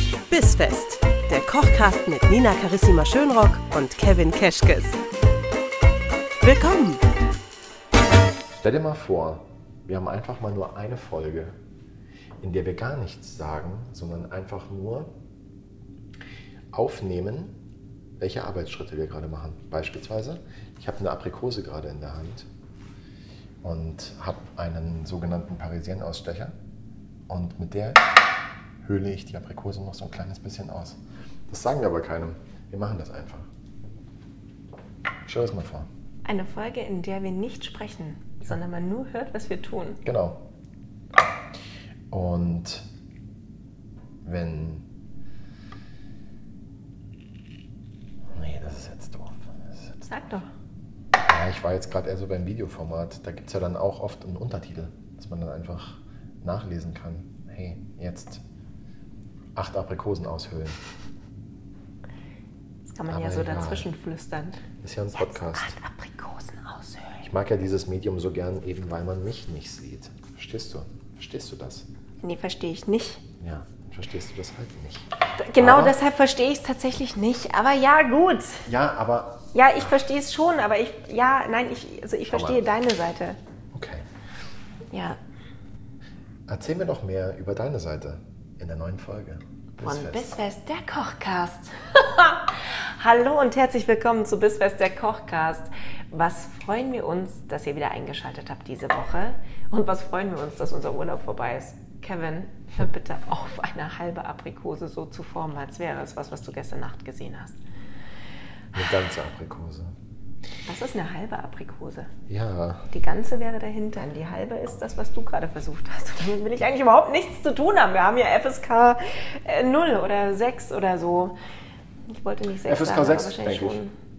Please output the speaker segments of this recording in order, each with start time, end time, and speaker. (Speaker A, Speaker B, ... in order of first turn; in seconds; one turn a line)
Speaker A: 0.3-5.0
Speaker A: 6.4-7.0
Speaker B: 8.6-11.6
Speaker B: 12.4-15.1
Speaker B: 16.7-17.5
Speaker B: 18.2-22.5
Speaker B: 23.6-26.5
Speaker B: 27.3-28.1
Speaker B: 28.8-31.0
Speaker B: 31.5-33.5
Speaker B: 35.2-35.9
Speaker C: 36.3-40.0
Speaker B: 40.0-40.4
Speaker B: 42.1-42.9
Speaker B: 44.2-44.8
Speaker B: 48.3-50.1
Speaker C: 50.1-50.5
Speaker B: 51.2-58.4
Speaker B: 59.5-60.8
Speaker C: 62.9-64.6
Speaker B: 63.1-63.9
Speaker B: 64.8-65.7
Speaker C: 65.2-67.2
Speaker B: 67.2-71.9
Speaker C: 72.2-73.2
Speaker B: 73.4-76.0
Speaker C: 75.4-78.6
Speaker B: 78.7-79.4
Speaker C: 79.5-83.4
Speaker B: 82.3-82.6
Speaker B: 83.7-84.0
Speaker C: 84.9-85.2
Speaker B: 86.5-90.3
Speaker C: 89.8-107.6
Speaker B: 108.7-109.9
Speaker C: 110.7-112.1
Speaker B: 112.3-112.9
Speaker C: 112.9-121.3
Speaker C: 122.1-123.9
Speaker B: 122.7-123.8